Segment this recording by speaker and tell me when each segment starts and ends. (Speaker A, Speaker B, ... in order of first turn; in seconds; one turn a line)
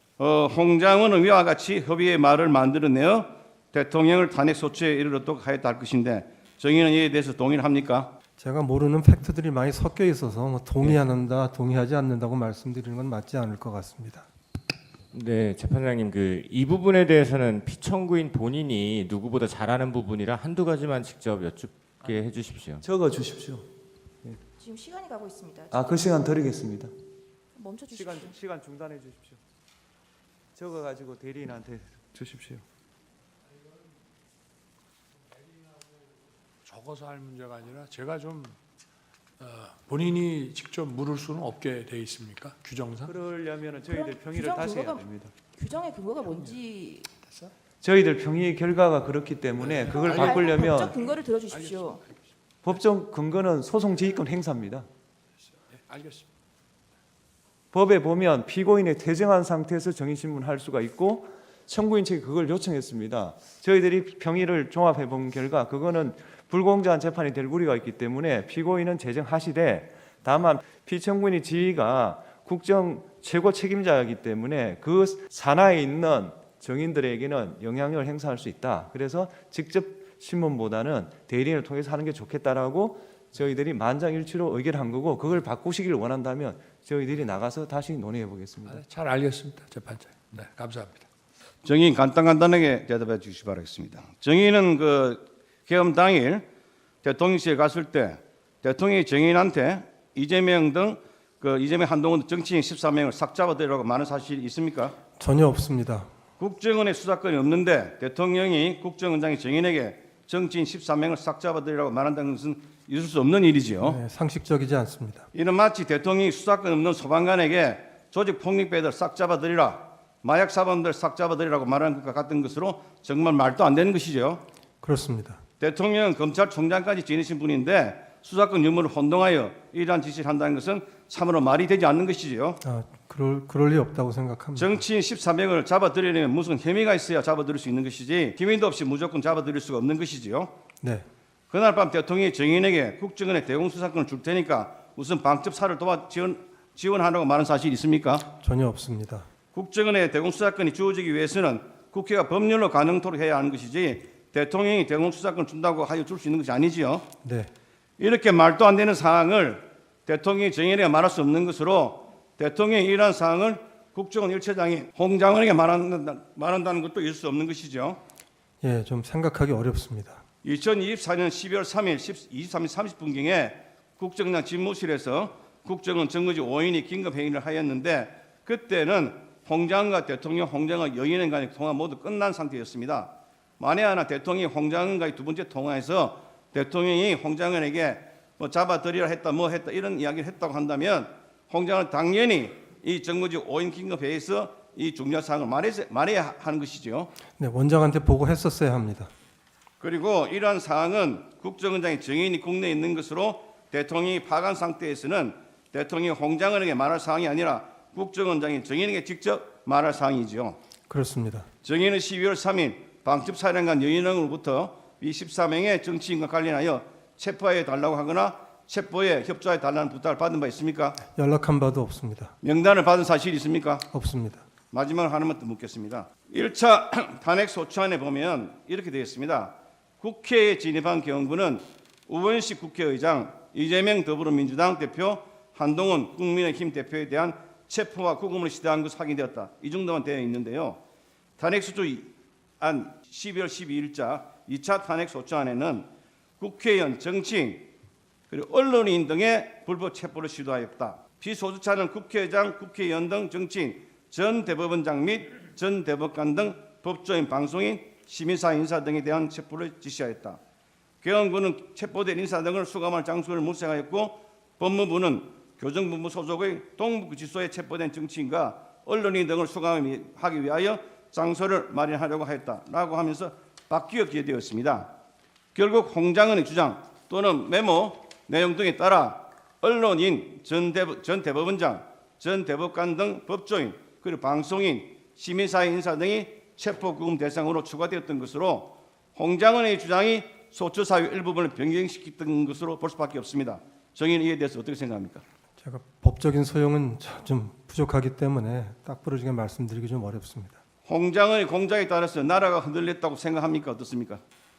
Speaker A: 0.2-8.1
Speaker B: 8.4-14.2
Speaker C: 15.1-22.8
Speaker D: 22.8-23.7
Speaker E: 24.6-26.1
Speaker D: 25.7-26.9
Speaker E: 27.6-28.4
Speaker D: 27.9-29.4
Speaker D: 30.6-32.6
Speaker F: 36.6-38.6
Speaker F: 39.4-43.1
Speaker D: 43.0-45.3
Speaker E: 43.9-47.1
Speaker F: 47.2-47.5
Speaker D: 47.8-50.9
Speaker F: 49.6-51.9
Speaker E: 49.9-52.0
Speaker D: 52.6-54.9
Speaker F: 55.8-56.2
Speaker D: 57.7-88.8
Speaker F: 88.7-91.0
Speaker A: 91.6-96.4
Speaker A: 97.0-105.0
Speaker B: 105.2-106.1
Speaker A: 106.4-114.0
Speaker B: 113.8-115.3
Speaker A: 115.3-124.4
Speaker B: 124.8-125.4
Speaker A: 125.6-132.6
Speaker B: 132.6-134.8
Speaker A: 134.6-140.5
Speaker B: 140.8-141.1
Speaker A: 141.5-148.2
Speaker B: 148.3-149.3
Speaker A: 149.5-157.1
Speaker B: 157.2-157.5
Speaker A: 158.0-168.0
Speaker B: 168.6-170.2
Speaker A: 170.4-197.1
Speaker B: 197.4-199.1
Speaker A: 199.8-210.6
Speaker B: 210.9-211.5
Speaker A: 211.6-221.0
Speaker B: 221.1-222.3
Speaker A: 222.4-223.8
Speaker B: 223.9-224.4
Speaker A: 224.7-240.8
Speaker A: 241.4-242.1
Speaker A: 242.6-245.9
Speaker A: 246.4-247.7
Speaker A: 248.3-260.4
Speaker A: 261.0-274.9
Speaker A: 275.6-295.2
Speaker B: 295.6-300.6
Speaker A: 300.9-304.2